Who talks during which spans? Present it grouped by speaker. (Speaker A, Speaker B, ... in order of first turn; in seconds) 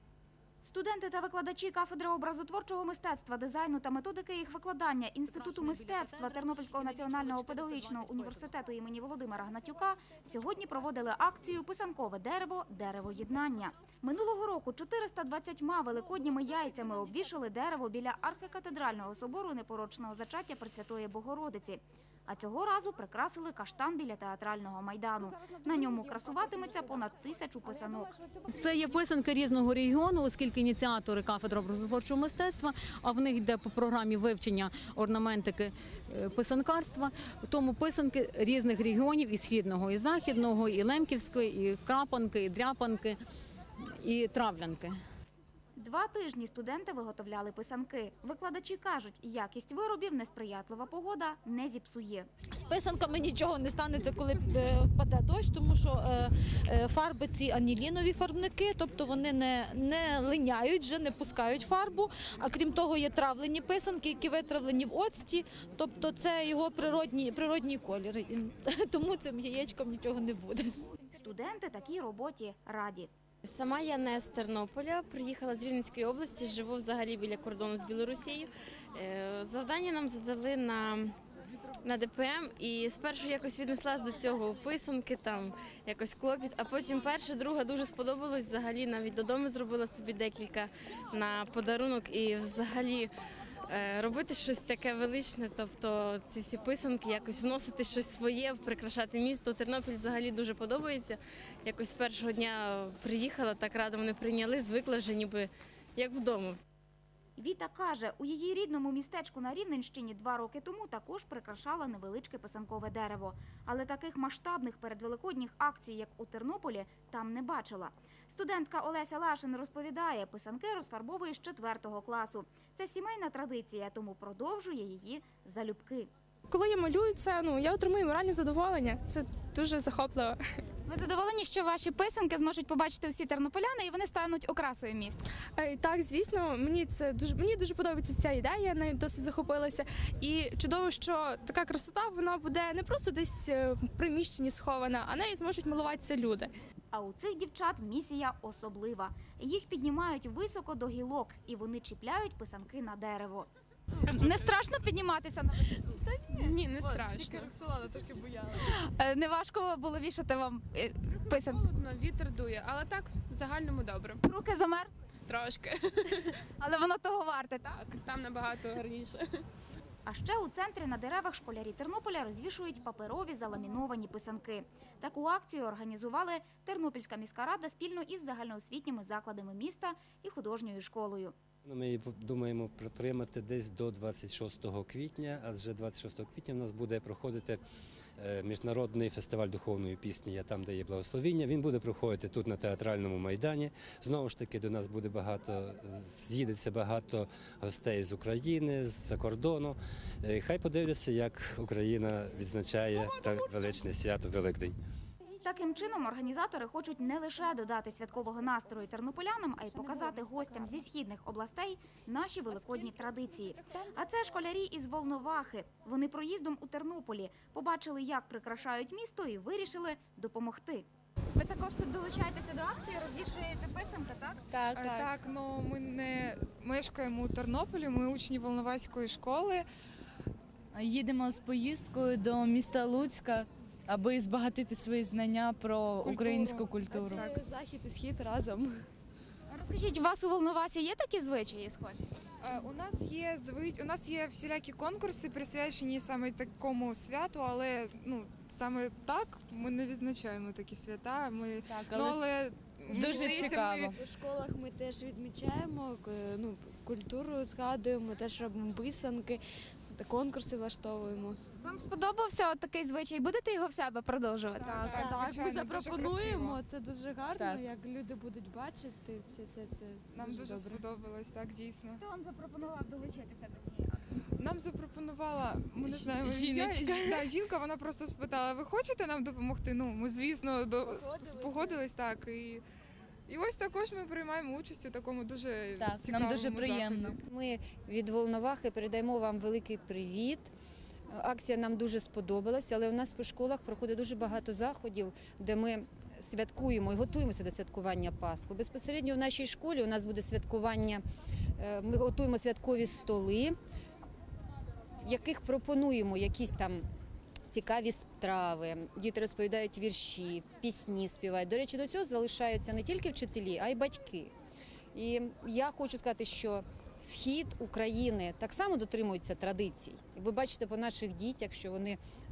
Speaker A: 0.6-28.1, 45.8-52.3, 71.1-73.1, 107.4-126.1, 146.9-153.5, 170.0-181.3, 205.4-220.8
Speaker B: 7.0-8.2, 28.5-43.2, 43.9-45.0
Speaker C: 25.4-26.8, 130.8-135.2, 154.1-155.6, 156.2-157.5, 158.6-169.4, 221.3-224.4, 239.5-242.1, 261.6-264.7, 272.0-273.9
Speaker D: 52.5-70.8
Speaker E: 73.4-81.1, 81.8-93.1, 93.7-106.6
Speaker F: 126.5-130.4, 135.6-146.5
Speaker G: 155.7-158.6, 236.9-238.8, 253.5-261.4, 264.7-270.9, 280.9-281.8
Speaker H: 181.6-187.6, 188.2-204.8
Speaker I: 224.5-225.1, 230.7-237.2, 251.7-253.9, 275.8-277.3, 285.8-287.1
Speaker J: 224.7-229.7, 236.0-237.3, 242.4-253.9, 264.6-266.6, 270.1-272.0, 274.4-282.6, 283.3-287.2
Speaker K: 287.2-290.5, 291.1-301.0, 301.6-303.6, 305.0-306.8, 307.5-314.3, 314.9-322.0